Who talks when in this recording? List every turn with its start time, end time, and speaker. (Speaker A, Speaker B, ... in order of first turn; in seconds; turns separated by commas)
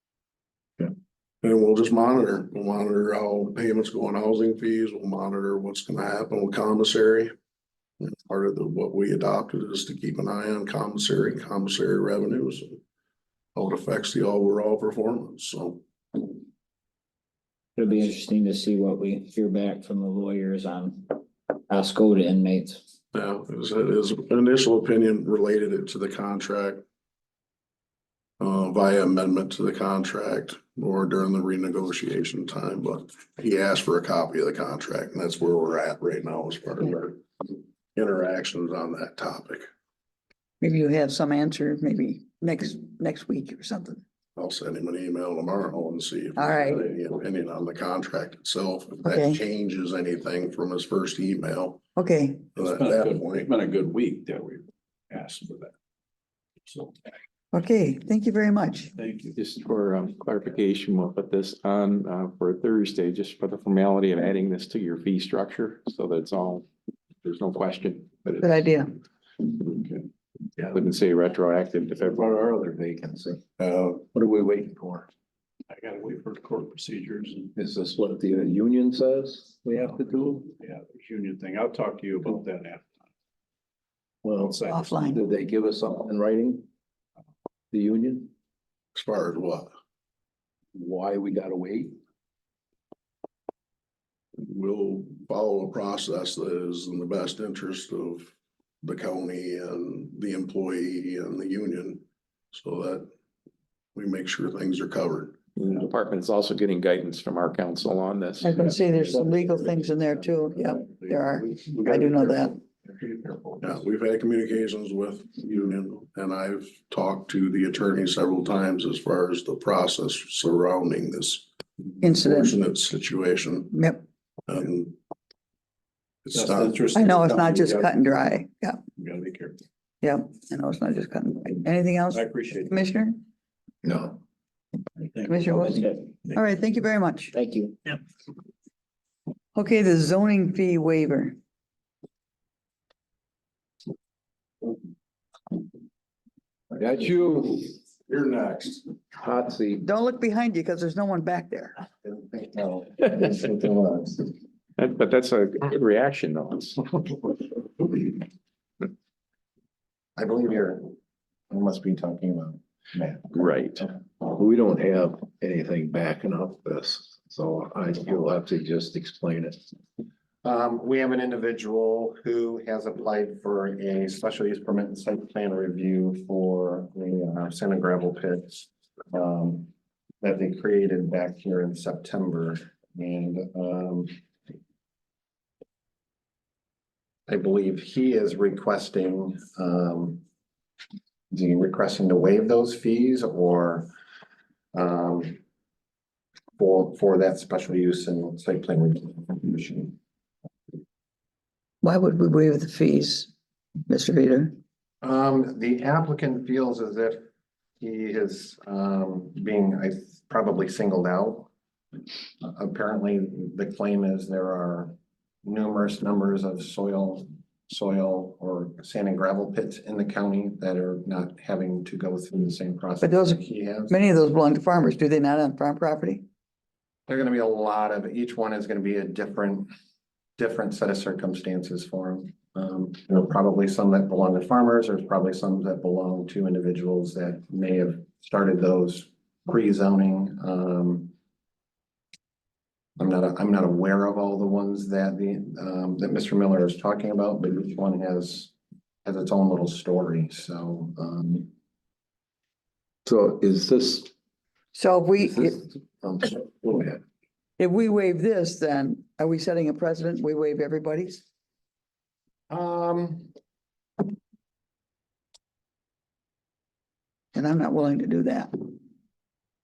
Speaker A: 1.4-7.3, Speaker A: 8.0-12.8, Speaker A: 13.6-15.8, Speaker B: 17.8-22.8, Speaker A: 23.1-26.8, Speaker A: 28.4-39.6, Speaker C: 40.6-44.0, Speaker A: 44.4-51.8, Speaker C: 46.4-46.9, Speaker C: 49.0-49.4, Speaker C: 52.0-52.4, Speaker A: 52.6-53.5, Speaker D: 52.6-55.7, Speaker D: 56.7-57.1, Speaker C: 57.5-58.9, Speaker D: 59.0-59.4, Speaker E: 59.4-66.7, Speaker E: 67.2-68.7, Speaker C: 68.4-68.9, Speaker E: 70.6-72.4, Speaker F: 72.1-75.1, Speaker A: 73.6-73.9, Speaker D: 75.7-77.5, Speaker F: 77.5-80.5, Speaker D: 80.6-83.0, Speaker F: 84.2-86.7, Speaker D: 84.4-85.0, Speaker C: 84.7-85.2, Speaker F: 87.7-88.3, Speaker A: 89.0-89.7, Speaker F: 90.8-92.0, Speaker A: 94.4-98.3, Speaker A: 98.8-102.0, Speaker A: 102.5-103.1, Speaker A: 104.0-105.4, Speaker E: 105.6-108.8, Speaker C: 108.4-112.6, Speaker D: 108.9-113.8, Speaker A: 113.6-121.5, Speaker C: 122.0-122.6, Speaker A: 122.1-123.7, Speaker C: 123.7-124.0, Speaker A: 124.5-125.0, Speaker A: 126.3-126.8, Speaker D: 126.3-128.0, Speaker C: 126.9-128.8, Speaker D: 129.0-129.6, Speaker C: 130.0-133.2, Speaker D: 132.1-132.8, Speaker D: 135.0-136.4, Speaker C: 135.3-137.3, Speaker B: 135.6-136.1, Speaker B: 137.3-137.8, Speaker C: 139.6-141.4, Speaker F: 146.8-147.8, Speaker A: 148.1-148.9, Speaker F: 149.2-149.8, Speaker C: 149.8-151.8, Speaker G: 152.0-154.3, Speaker E: 154.8-156.8, Speaker G: 160.2-160.9, Speaker G: 161.5-163.3, Speaker E: 163.3-163.9, Speaker F: 164.2-169.7, Speaker G: 170.4-179.7, Speaker G: 180.2-184.1, Speaker G: 187.3-190.2, Speaker G: 191.3-193.9, Speaker G: 194.7-195.4, Speaker G: 196.6-199.9, Speaker C: 201.8-203.3, Speaker C: 203.9-204.6, Speaker G: 205.0-207.3, Speaker G: 207.8-211.5, Speaker G: 212.4-224.0, Speaker C: 223.0-226.2, Speaker G: 227.1-229.7, Speaker G: 230.4-241.1, Speaker G: 243.0-248.5, Speaker G: 249.1-251.5, Speaker F: 253.1-254.1, Speaker C: 254.7-255.6, Speaker F: 255.2-257.0, Speaker C: 257.6-261.2, Speaker G: 262.5-263.3, Speaker C: 267.3-268.7